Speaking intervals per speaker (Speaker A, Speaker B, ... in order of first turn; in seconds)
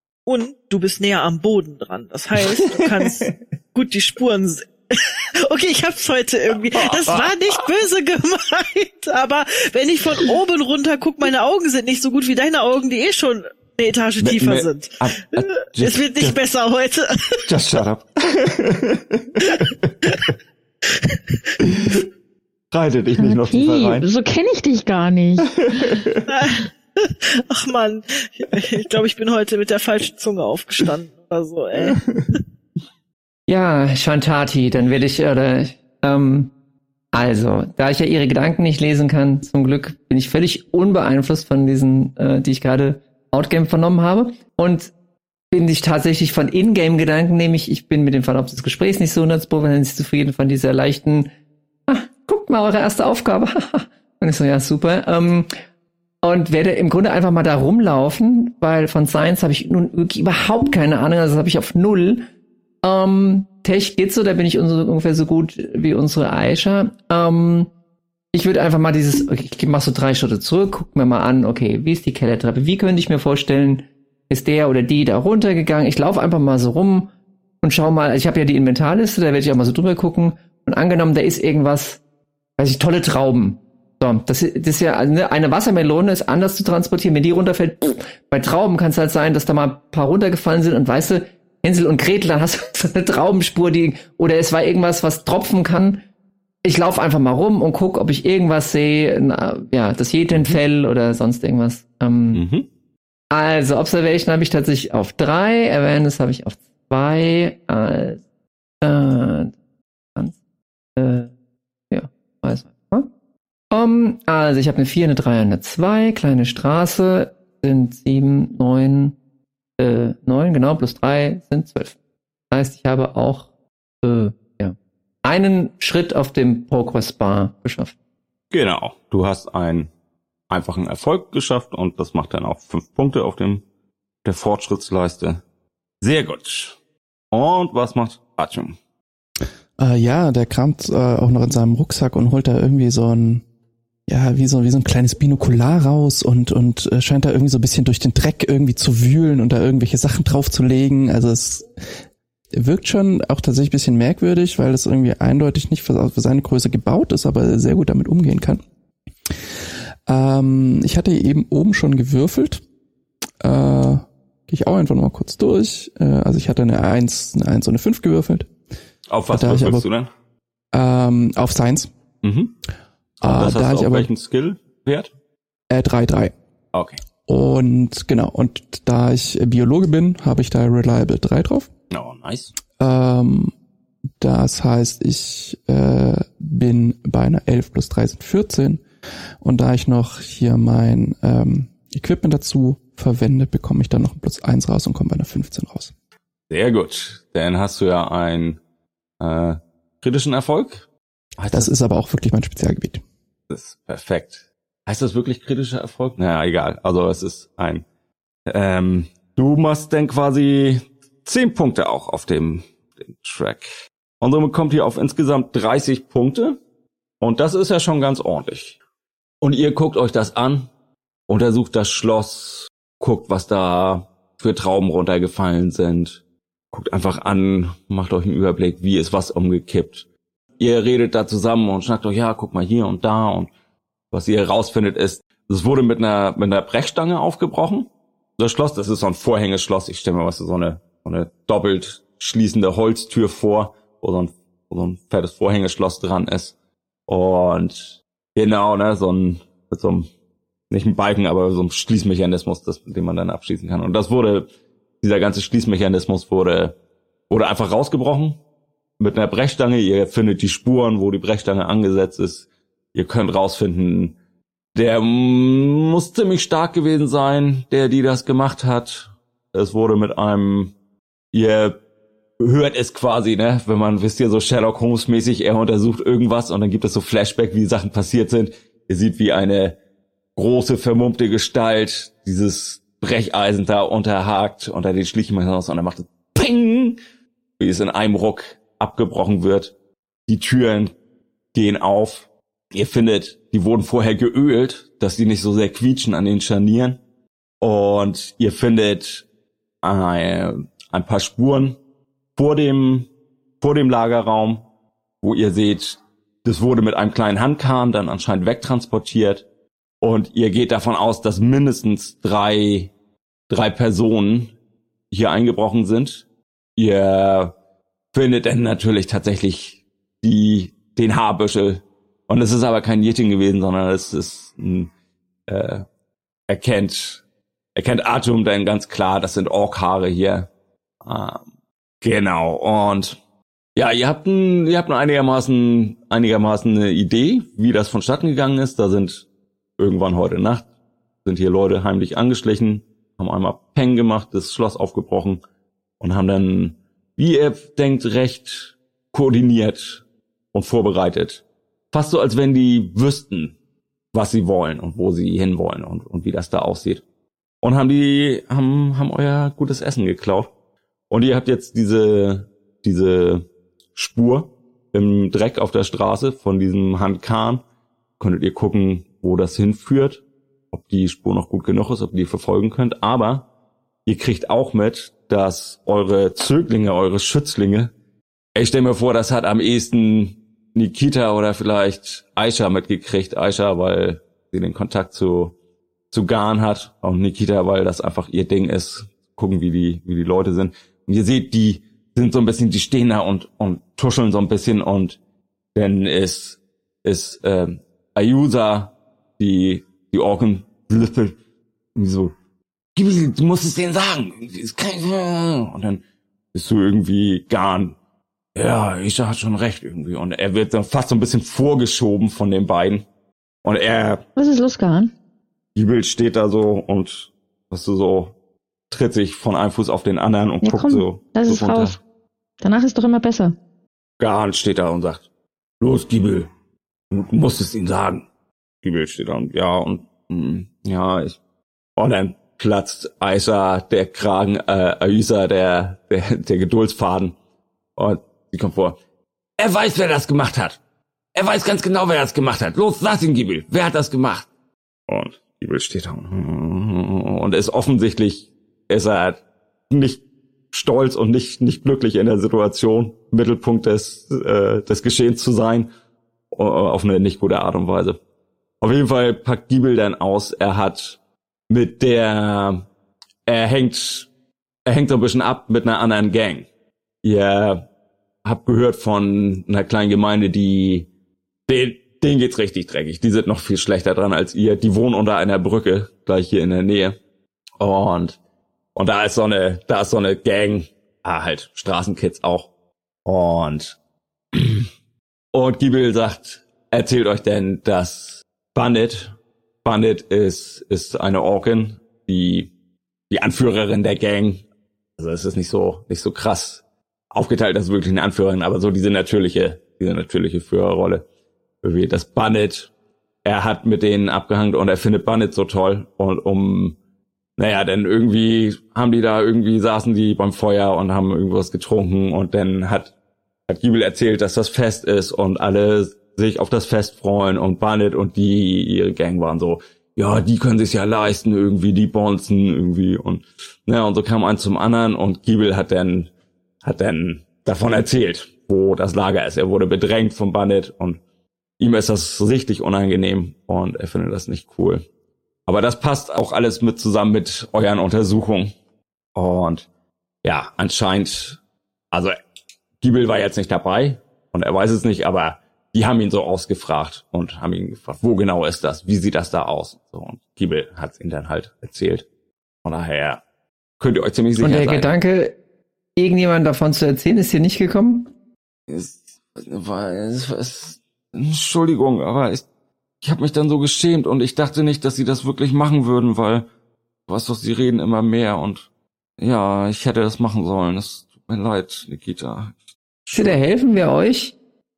Speaker A: 0.3-17.4, 19.5-20.2, 26.3-32.0
Speaker B: 2.6-3.4, 6.7-7.4, 14.2-16.4, 17.5-20.3, 21.6-22.1, 22.7-24.1, 25.5-26.3, 31.9-32.3, 102.3-102.7, 128.5-129.9, 130.5-133.7, 134.2-135.4, 136.0-136.8, 137.3-138.8, 169.1-170.1, 172.2-172.5, 173.2-175.1, 176.7-177.0, 181.9-182.6, 196.5-198.6, 199.2-200.9, 201.4-201.7, 203.5-207.9, 208.5-216.6, 217.2-218.8, 219.4-220.7, 221.3-230.1, 230.6-233.5, 234.1-246.6, 247.1-250.1, 250.7-254.5, 255.0-256.8, 257.3-258.4, 259.0-264.2, 264.8-270.8, 271.3-271.8, 272.4-279.8, 280.4-287.0, 287.6-289.7, 290.3-290.9, 291.5-297.0, 297.6-299.3, 299.8-301.8, 302.4-303.1, 303.6-304.7, 305.2-309.5, 310.0-312.9, 313.5-314.5, 315.1-316.2, 316.8-317.6, 318.1-324.9, 325.5-325.9, 326.5-327.2, 327.8-330.5, 331.0-331.5, 332.0-333.2, 333.8-339.3, 339.8-340.7, 341.2-345.4, 346.0-353.6, 354.1-357.0, 357.6-360.5, 361.1-367.6, 368.2-373.5, 374.1-377.9, 378.6-385.6, 386.1-395.2, 395.8-401.4, 401.9-402.4, 402.9-406.0, 406.5-408.0, 408.6-413.1, 413.6-414.2, 415.8-418.4, 418.9-422.0, 424.2-425.3, 425.8-426.5, 427.1-428.3, 428.8-431.4, 432.0-437.4, 438.0-439.0, 439.6-440.8, 441.4-444.5, 445.1-455.9, 456.5-458.2, 458.8-462.9, 463.5-464.3, 464.9-466.7, 467.2-467.9, 468.4-471.1, 471.7-477.2, 477.8-478.4, 478.9-482.7, 483.2-484.0, 484.5-484.9, 485.5-492.7, 493.3-494.6, 495.2-501.2, 501.8-502.9, 503.4-507.0, 507.6-513.1, 513.7-526.3, 526.8-531.2, 531.8-535.0, 535.7-538.7, 539.4-539.9, 540.4-541.6, 542.1-542.4, 543.0-552.3, 552.8-553.4, 554.0-555.1, 558.9-562.7, 563.2-566.7, 567.3-568.9, 569.4-573.6
Speaker C: 23.1-26.0, 414.4-415.1, 420.6-422.0, 422.6-423.6
Speaker D: 33.5-36.5, 37.1-44.9, 45.5-51.3, 51.9-55.5, 56.2-62.3, 62.8-67.7, 68.3-77.1, 77.6-82.0, 82.6-96.0, 96.6-102.4, 103.3-108.2, 108.8-109.5, 111.0-111.3, 111.9-113.1, 113.7-119.2, 119.8-122.0, 122.5-123.5, 124.0-127.9, 554.6-555.6, 556.2-558.3, 573.3-574.6
Speaker E: 139.8-143.4, 144.1-151.7, 152.5-158.6, 160.1-162.6, 163.4-168.5, 169.3-169.8, 170.7-171.9, 173.2-174.1, 175.7-176.3, 177.3-181.7, 182.8-183.5, 184.2-188.8, 189.4-195.9, 201.5-203.0